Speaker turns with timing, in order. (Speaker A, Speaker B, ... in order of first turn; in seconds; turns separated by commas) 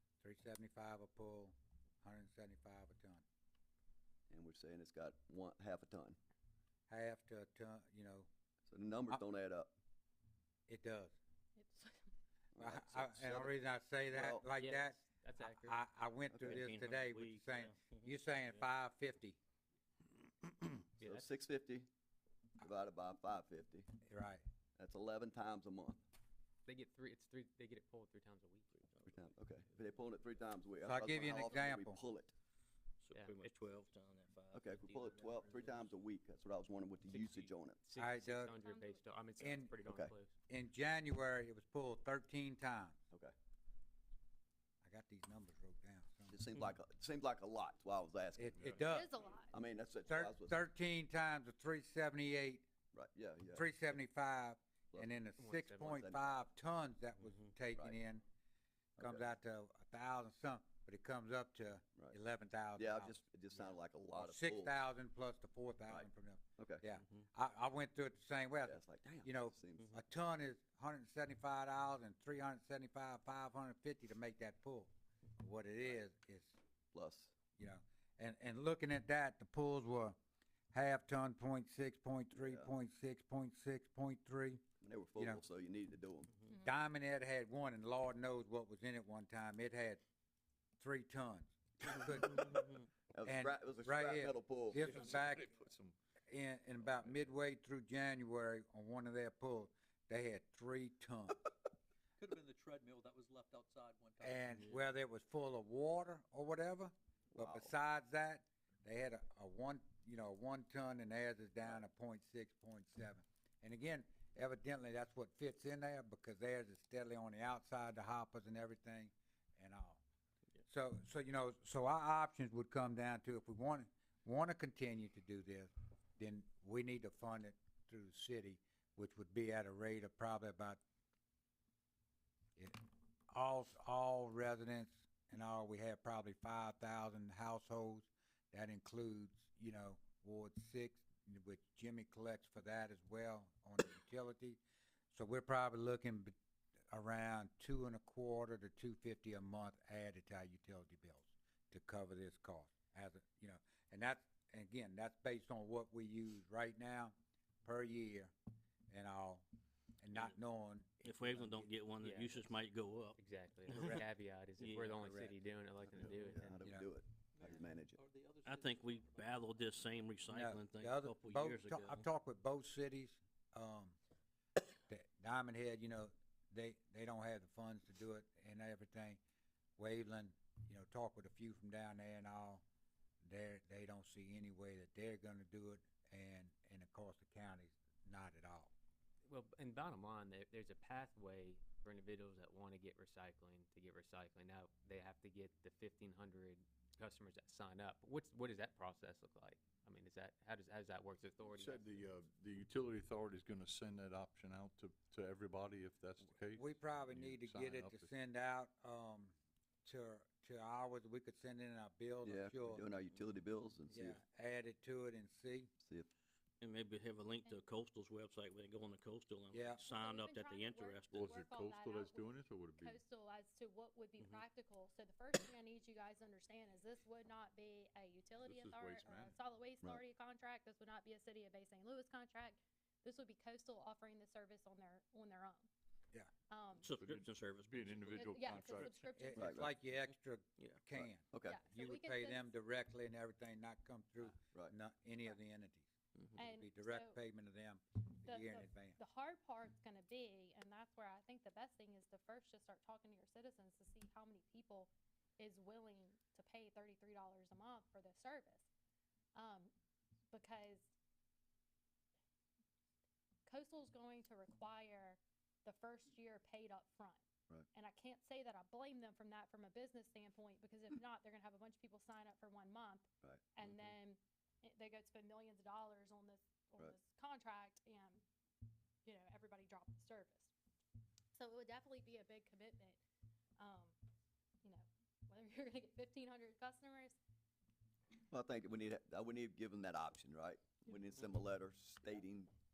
Speaker A: 0.2-3.2, Speaker B: 4.3-6.2, Speaker A: 6.9-8.3, Speaker B: 8.7-9.8, Speaker A: 10.7-11.2, Speaker C: 11.6-12.1, Speaker B: 12.6-13.5, Speaker A: 12.6-19.4, Speaker B: 14.1-14.4, Speaker D: 14.6-15.8, Speaker B: 16.3-16.6, Speaker E: 16.5-18.0, Speaker D: 21.0-21.3, Speaker B: 21.0-21.9, Speaker B: 22.6-23.9, Speaker A: 24.0-24.4, Speaker B: 24.8-26.0, Speaker D: 26.6-28.8, Speaker B: 29.1-32.3, Speaker A: 30.8-32.0, Speaker E: 33.0-35.5, Speaker B: 34.5-37.8, Speaker D: 37.1-40.3, Speaker A: 38.0-38.5, Speaker C: 38.6-39.0, Speaker A: 39.4-39.7, Speaker B: 39.8-40.1, Speaker A: 40.5-43.0, Speaker A: 44.8-46.3, Speaker B: 46.3-48.9, Speaker A: 48.4-49.1, Speaker C: 48.8-49.5, Speaker B: 49.5-50.5, Speaker A: 50.1-52.7, Speaker B: 52.9-53.6, Speaker A: 53.5-58.2, Speaker D: 55.4-56.0, Speaker B: 55.9-56.2, Speaker A: 59.0-76.6, Speaker B: 59.0-59.2, Speaker B: 62.8-64.8, Speaker B: 65.9-66.8, Speaker B: 68.6-70.0, Speaker B: 76.9-77.4, Speaker A: 77.6-80.2, Speaker A: 80.7-84.6, Speaker B: 82.4-82.7, Speaker B: 84.8-86.3, Speaker A: 85.2-85.4, Speaker A: 86.6-90.0, Speaker A: 90.8-92.6, Speaker B: 92.0-92.6, Speaker B: 93.1-95.0, Speaker A: 93.2-95.5, Speaker F: 94.9-95.9, Speaker A: 96.3-101.4, Speaker G: 102.2-104.8, Speaker A: 104.2-120.0, Speaker B: 107.3-107.7, Speaker A: 120.7-130.8, Speaker A: 133.3-144.6, Speaker A: 145.1-146.3, Speaker A: 146.9-158.3, Speaker A: 158.9-159.4, Speaker A: 160.0-161.7, Speaker E: 161.0-163.2, Speaker D: 162.0-162.4, Speaker D: 163.2-166.6, Speaker E: 163.7-164.0, Speaker E: 164.6-165.1, Speaker B: 166.0-168.0, Speaker A: 166.6-166.9, Speaker G: 167.4-169.2, Speaker E: 168.4-172.0, Speaker A: 170.3-174.0, Speaker A: 174.9-179.2, Speaker A: 179.8-182.6, Speaker A: 183.2-188.7, Speaker D: 189.2-202.0, Speaker F: 201.4-208.1, Speaker A: 206.6-212.8, Speaker B: 212.2-214.2, Speaker A: 213.9-215.7, Speaker B: 215.8-216.1, Speaker E: 216.6-221.2, Speaker A: 219.5-219.8, Speaker C: 219.8-235.7, Speaker F: 221.1-223.0, Speaker F: 228.4-229.4, Speaker C: 236.5-236.9, Speaker E: 236.8-238.8, Speaker F: 237.0-239.0, Speaker C: 238.1-239.7, Speaker A: 239.2-249.0, Speaker B: 239.4-239.7, Speaker B: 241.0-241.6, Speaker C: 241.4-242.5, Speaker C: 246.3-247.2, Speaker C: 248.2-258.7, Speaker C: 259.4-259.7, Speaker C: 260.3-260.9, Speaker C: 263.4-267.2, Speaker C: 267.7-278.2, Speaker C: 279.1-280.5, Speaker C: 281.3-283.0, Speaker C: 283.6-283.9, Speaker C: 284.6-287.2, Speaker B: 288.3-292.5